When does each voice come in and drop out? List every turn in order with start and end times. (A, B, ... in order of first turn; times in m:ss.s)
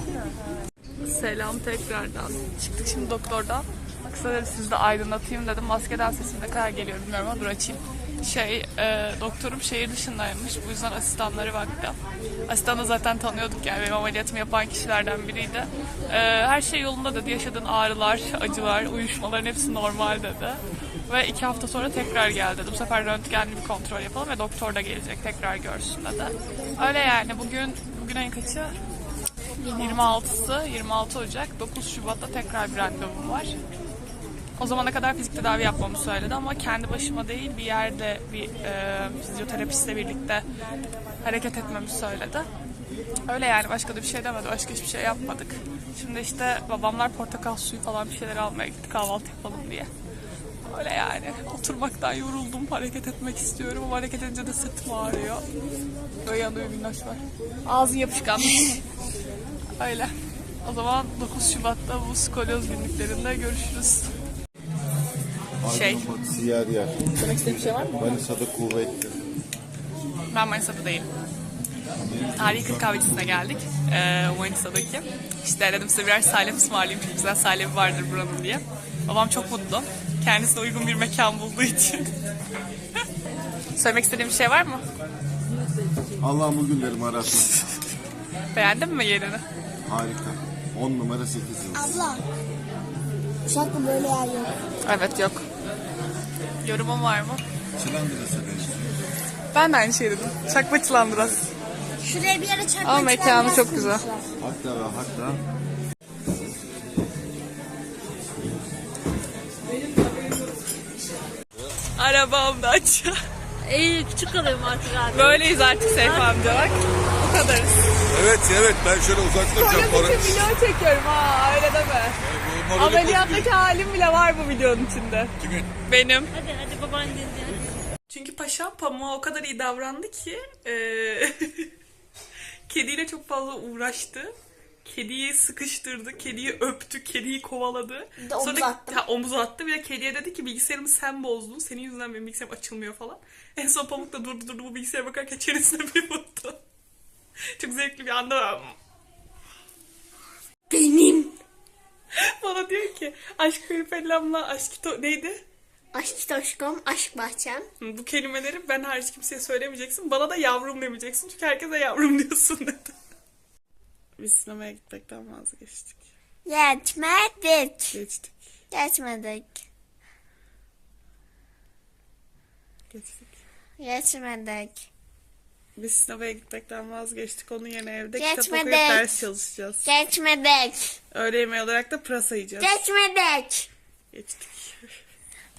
0:01.0-0:28.8 A
0:29.7-0:33.6 A
0:34.6-0:40.5 A
0:41.2-0:42.5 A
0:43.3-0:49.9 A
0:50.7-0:55.4 A
0:56.2-0:58.8 A
0:59.8-1:04.1 A
1:05.6-1:07.0 B
1:05.7-1:06.1 A
1:07.2-1:08.2 A
1:08.0-1:09.2 B
1:10.3-1:11.1 A
1:12.0-1:13.3 B
1:12.3-1:22.1 A
1:23.8-1:24.8 A
1:26.2-1:27.6 B
1:28.5-1:29.4 A
1:29.9-1:31.9 B
1:31.8-1:32.2 C
1:33.5-1:34.6 C
1:34.8-1:35.5 A
1:36.6-1:37.4 A
1:37.8-1:38.9 B
1:39.5-1:41.5 A
1:42.0-1:44.2 C
1:42.8-1:44.1 A
1:44.4-1:45.4 B
1:52.0-1:53.2 A
1:53.7-1:55.2 D
1:55.1-1:58.0 A
1:58.1-2:00.1 E
1:59.5-2:00.3 B
1:59.5-2:02.2 A
2:02.3-2:03.5 E
2:02.7-2:05.3 A
2:05.4-2:05.7 E
2:05.9-2:06.3 A
2:06.4-2:07.6 D
2:08.1-2:11.7 A
2:12.7-2:14.3 A
2:14.8-2:26.6 A
2:18.2-2:19.0 C
2:27.6-2:28.8 A
2:30.7-2:31.3 C
2:32.2-2:35.4 A
2:35.9-2:37.7 C
2:37.8-2:43.0 A
2:44.2-2:46.1 A
2:46.5-2:48.0 C
2:47.9-2:48.4 A
2:48.7-2:49.6 C
2:52.9-2:53.3 A
2:53.8-2:54.9 C
2:55.8-2:59.9 A
2:58.2-2:59.1 C
2:59.8-3:01.0 C
3:01.1-3:02.9 A
3:02.6-3:03.7 C
3:04.1-3:04.9 A